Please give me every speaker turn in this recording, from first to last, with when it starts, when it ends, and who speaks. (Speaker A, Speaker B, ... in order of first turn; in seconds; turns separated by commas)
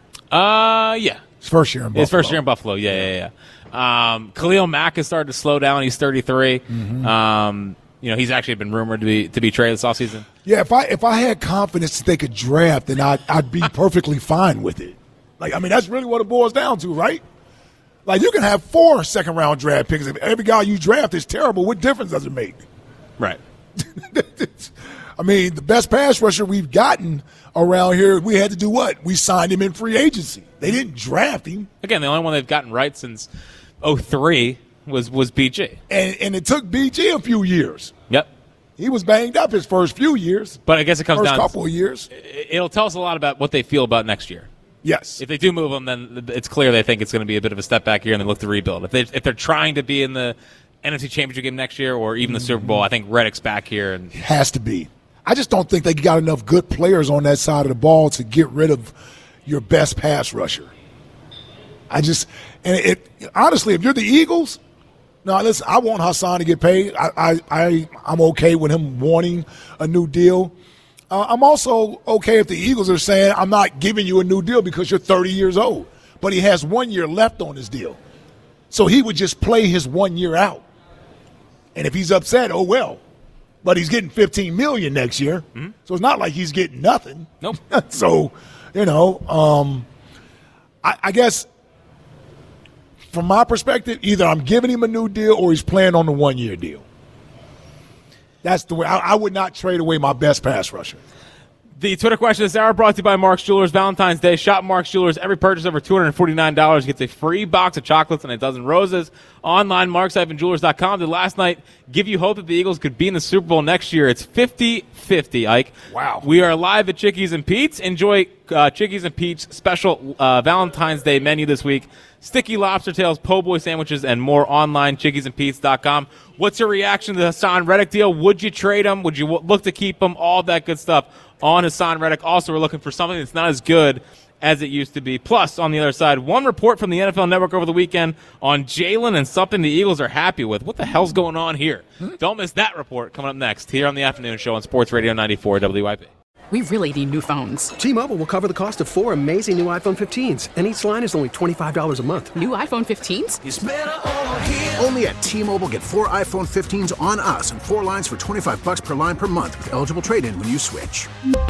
Speaker A: 0.3-1.2, Speaker B: 1.4-2.4, Speaker A: 1.9-10.3, Speaker B: 6.7-7.1, Speaker B: 10.4-17.2, Speaker B: 18.1-22.6, Speaker B: 23.8-31.7, Speaker A: 31.8-33.3, Speaker A: 33.8-35.8, Speaker B: 35.9-37.9, Speaker B: 38.8-42.1, Speaker A: 40.7-41.5, Speaker A: 42.1-44.5, Speaker B: 44.8-45.2, Speaker A: 45.2-54.1, Speaker B: 52.2-52.8, Speaker B: 54.1-58.9, Speaker B: 59.5-60.7, Speaker B: 61.9-64.6, Speaker B: 65.2-70.5, Speaker B: 71.1-78.0, Speaker B: 78.7-80.6, Speaker B: 81.8-83.0, Speaker B: 83.6-89.9, Speaker B: 90.8-91.5, Speaker B: 93.1-96.8, Speaker B: 98.4-101.0, Speaker A: 101.8-146.1, Speaker B: 115.9-116.3, Speaker C: 146.5-147.7, Speaker D: 147.8-152.4, Speaker C: 152.3-153.4, Speaker E: 153.4-161.1